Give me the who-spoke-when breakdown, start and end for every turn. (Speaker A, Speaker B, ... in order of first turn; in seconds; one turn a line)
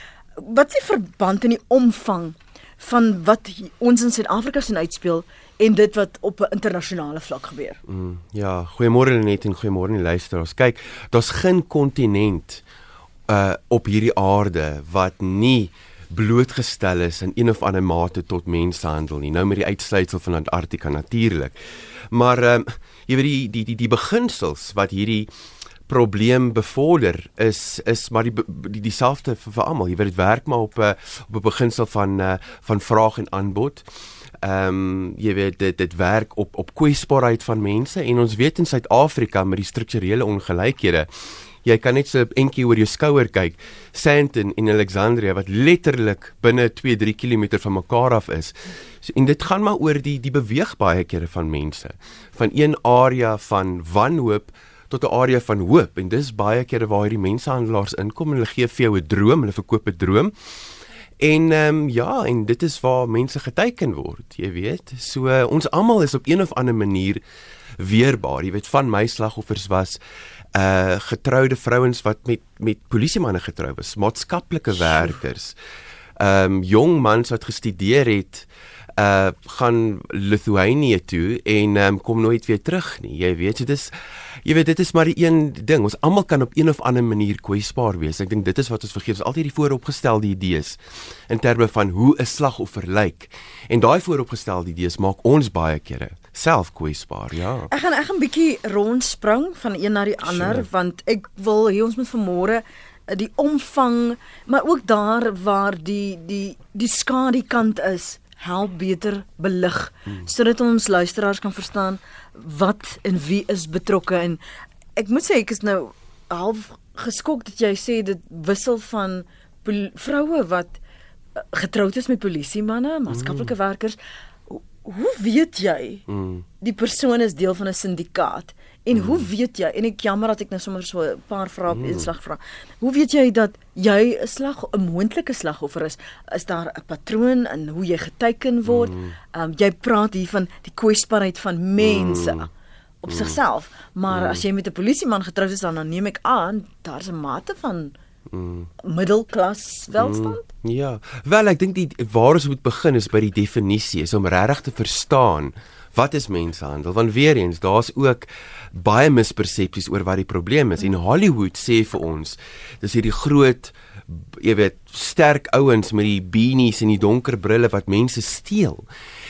Speaker A: 0.4-7.8
Speaker B: 7.9-12.6
Speaker B: 13.3-21.6
Speaker B: 22.1-25.3
Speaker B: 25.9-33.9
Speaker B: 34.4-41.1
Speaker B: 41.6-60.3
Speaker B: 61.2-67.2
Speaker B: 67.8-70.0
Speaker B: 70.5-75.5
Speaker B: 76.2-97.7
Speaker A: 97.7-114.4
Speaker B: 100.2-100.7
Speaker A: 115.0-120.8
Speaker A: 121.3-124.0
Speaker B: 123.1-123.5
Speaker A: 124.5-126.0
Speaker B: 126.1-126.4
Speaker A: 126.6-142.5
Speaker B: 128.9-129.3
Speaker B: 131.7-132.1
Speaker B: 138.7-139.1
Speaker B: 141.8-142.5
Speaker A: 143.0-147.9
Speaker B: 143.1-143.4
Speaker B: 144.1-144.4
Speaker B: 148.3-148.7
Speaker A: 148.8-150.4
Speaker B: 150.0-168.8